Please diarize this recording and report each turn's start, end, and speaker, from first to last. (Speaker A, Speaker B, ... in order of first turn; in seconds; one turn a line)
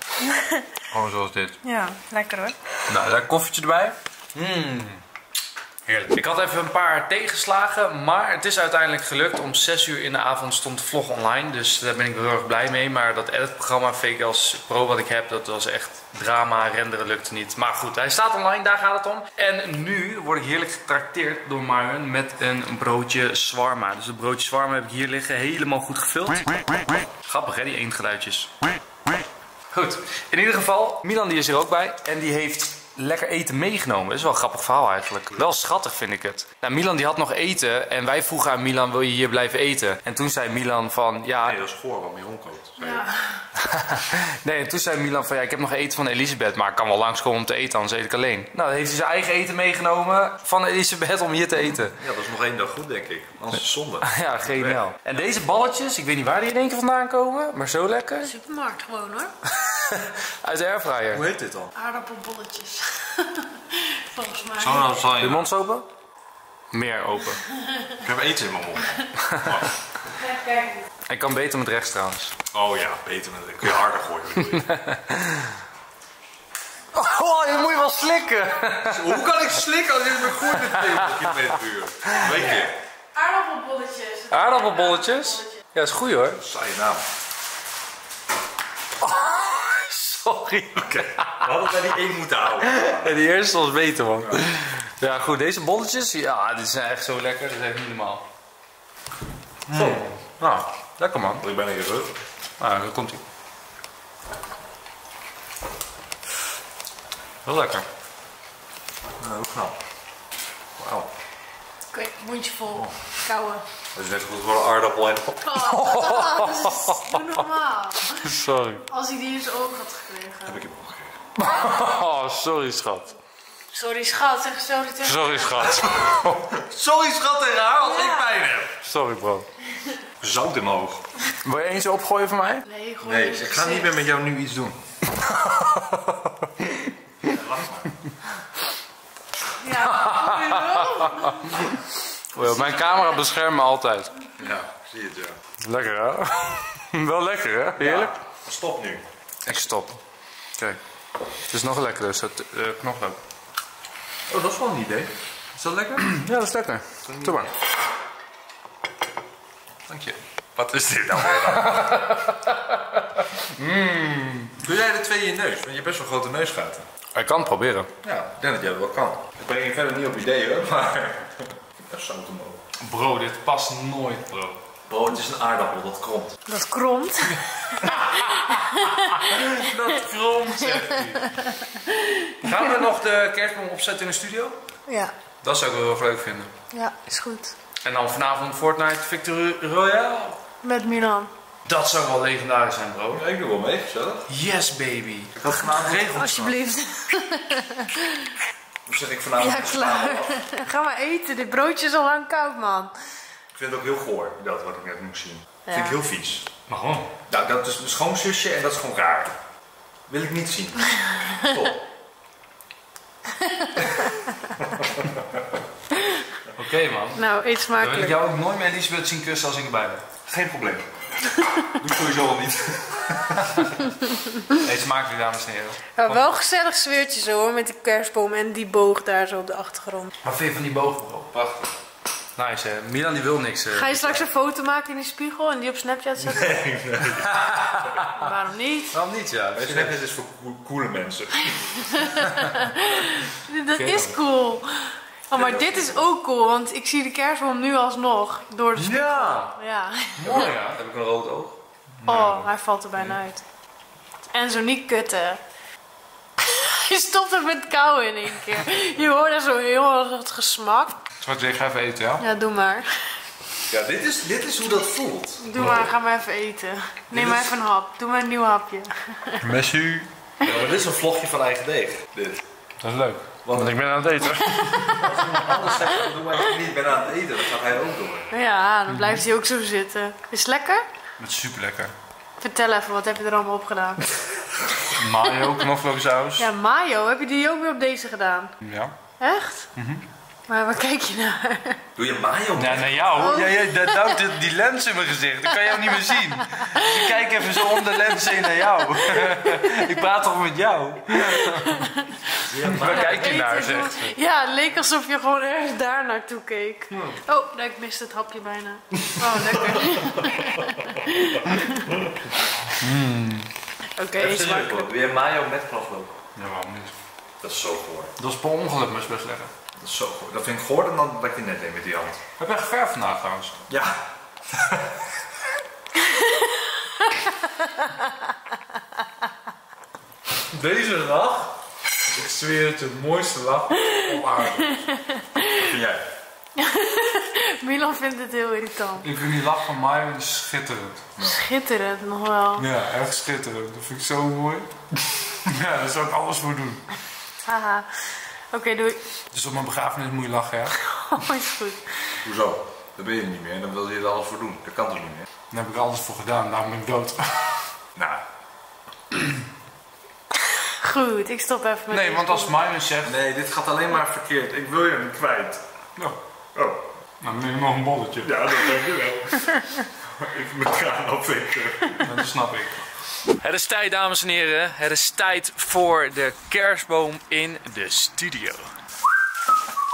Speaker A: 0.2-0.6
Speaker B: 0.9-1.6
Speaker A: 1.6-2.5
Speaker B: 2.9-5.0
Speaker B: 5.9-26.6
Speaker B: 27.2-28.5
Speaker B: 29.7-41.6
Speaker C: 41.4-43.0
Speaker A: 42.8-43.4
Speaker B: 43.5-52.0
Speaker C: 52.0-54.8
Speaker B: 54.0-58.3
Speaker A: 58.2-59.3
Speaker B: 59.5-61.2
Speaker C: 61.1-61.7
Speaker A: 61.7-65.0
Speaker C: 64.6-65.5
Speaker B: 65.2-65.8
Speaker B: 66.7-67.4
Speaker C: 68.0-69.7
Speaker B: 69.2-69.5
Speaker A: 70.1-70.9
Speaker B: 71.1-72.3
Speaker C: 72.5-74.7
Speaker B: 74.4-75.5
Speaker B: 76.9-79.2
Speaker C: 78.9-82.8
Speaker B: 80.4-81.1
Speaker A: 82.3-85.5
Speaker B: 84.3-86.4
Speaker C: 86.4-87.0
Speaker B: 89.0-91.5
Speaker C: 90.9-93.1
Speaker B: 92.6-98.2
Speaker C: 99.7-100.0
Speaker B: 99.7-101.4
Speaker C: 101.4-102.2
Speaker B: 102.6-103.2
Speaker B: 107.4-107.8
Speaker C: 109.2-109.8
Speaker C: 110.8-111.1
Speaker A: 111.9-113.6
Speaker C: 113.9-115.5
Speaker A: 115.4-118.3
Speaker B: 115.5-117.4
Speaker B: 118.1-118.8
Speaker A: 118.9-120.6
Speaker C: 120.4-121.1
Speaker B: 121.4-123.1
Speaker A: 123.7-126.0
Speaker B: 125.0-129.5
Speaker A: 127.8-128.3
Speaker C: 130.2-131.1
Speaker B: 131.4-132.6
Speaker A: 132.7-133.9
Speaker C: 133.0-134.8
Speaker B: 135.1-136.7
Speaker C: 137.2-137.9
Speaker A: 139.6-141.5
Speaker B: 139.7-141.8
Speaker B: 142.3-144.1
Speaker A: 142.3-143.3
Speaker C: 144.4-145.4
Speaker B: 145.6-148.1
Speaker C: 147.8-149.0
Speaker B: 149.4-150.0
Speaker B: 151.5-153.2
Speaker C: 154.3-156.2
Speaker B: 156.0-157.5
Speaker C: 157.1-157.5
Speaker C: 159.9-161.8
Speaker B: 161.5-164.6
Speaker C: 164.6-166.9
Speaker B: 167.1-167.9
Speaker C: 168.0-172.6
Speaker B: 172.8-174.6
Speaker C: 174.9-176.4
Speaker A: 176.5-179.4
Speaker B: 177.8-181.3
Speaker A: 180.7-182.7
Speaker B: 182.4-184.6
Speaker A: 184.9-185.1
Speaker B: 185.4-186.5
Speaker A: 186.7-187.6
Speaker B: 187.8-190.4
Speaker A: 190.6-191.3
Speaker B: 191.7-193.2
Speaker C: 193.1-194.2
Speaker B: 194.3-196.3
Speaker C: 195.4-196.6
Speaker A: 196.1-198.3
Speaker C: 198.8-200.4
Speaker A: 199.4-202.9
Speaker C: 203.5-206.5
Speaker A: 205.7-206.0
Speaker B: 206.7-207.1
Speaker C: 207.3-209.3
Speaker C: 210.1-211.8
Speaker A: 213.4-213.9
Speaker C: 214.7-215.2
Speaker B: 216.6-217.2
Speaker A: 217.2-218.2
Speaker B: 217.8-220.1
Speaker C: 220.2-220.9
Speaker C: 221.8-223.6
Speaker B: 224.5-226.2
Speaker A: 226.0-230.1
Speaker B: 230.2-231.7
Speaker B: 232.3-234.2
Speaker A: 233.7-236.7
Speaker C: 236.2-237.4
Speaker B: 237.2-238.2
Speaker A: 238.1-238.9
Speaker B: 238.9-239.9
Speaker C: 239.5-242.1
Speaker A: 241.8-250.3
Speaker B: 243.7-244.2
Speaker C: 245.3-246.0
Speaker B: 248.8-249.5
Speaker B: 250.2-252.4
Speaker C: 250.2-250.6
Speaker A: 252.1-253.4
Speaker A: 254.3-255.4
Speaker A: 256.4-261.0
Speaker B: 261.2-262.2
Speaker A: 262.2-262.9
Speaker C: 263.7-265.7
Speaker A: 265.4-269.4
Speaker B: 265.6-265.9
Speaker C: 267.1-267.4
Speaker B: 269.4-270.1
Speaker C: 270.4-272.4
Speaker B: 272.8-275.0
Speaker C: 273.4-273.9
Speaker A: 274.4-275.9
Speaker C: 274.9-278.3
Speaker A: 278.3-280.9
Speaker B: 278.9-279.2
Speaker B: 281.2-281.9
Speaker A: 282.4-284.0
Speaker B: 284.9-286.5
Speaker A: 286.4-288.5
Speaker B: 288.6-288.9
Speaker A: 289.2-289.7
Speaker B: 289.8-290.0
Speaker A: 290.5-291.8
Speaker C: 291.9-293.2
Speaker B: 292.6-301.8
Speaker A: 293.1-294.2
Speaker A: 295.6-297.1
Speaker A: 297.6-299.9
Speaker A: 301.2-302.1
Speaker B: 302.3-304.1
Speaker C: 302.5-303.2
Speaker A: 302.8-311.9
Speaker B: 306.9-307.2
Speaker C: 309.5-310.7
Speaker C: 311.9-312.1
Speaker B: 312.8-313.5
Speaker A: 314.0-314.9
Speaker C: 314.1-316.1
Speaker B: 316.3-316.9
Speaker C: 317.4-318.1
Speaker B: 318.2-319.5
Speaker C: 319.8-322.2
Speaker B: 322.4-323.6
Speaker C: 323.7-324.0
Speaker A: 326.0-326.4
Speaker A: 327.0-327.8
Speaker B: 330.5-331.5
Speaker B: 332.1-334.8
Speaker A: 334.6-335.4
Speaker C: 335.5-336.1
Speaker A: 336.6-339.1
Speaker B: 339.0-341.0
Speaker A: 341.2-342.6
Speaker B: 342.6-346.8
Speaker A: 347.4-349.0
Speaker B: 349.3-350.8
Speaker A: 350.8-352.2
Speaker C: 352.2-355.3
Speaker B: 355.5-357.6
Speaker C: 357.9-358.2
Speaker A: 360.6-362.6
Speaker B: 361.9-363.1
Speaker C: 363.0-365.6
Speaker C: 366.5-366.8
Speaker B: 367.2-368.4
Speaker C: 368.2-372.2
Speaker B: 372.0-378.7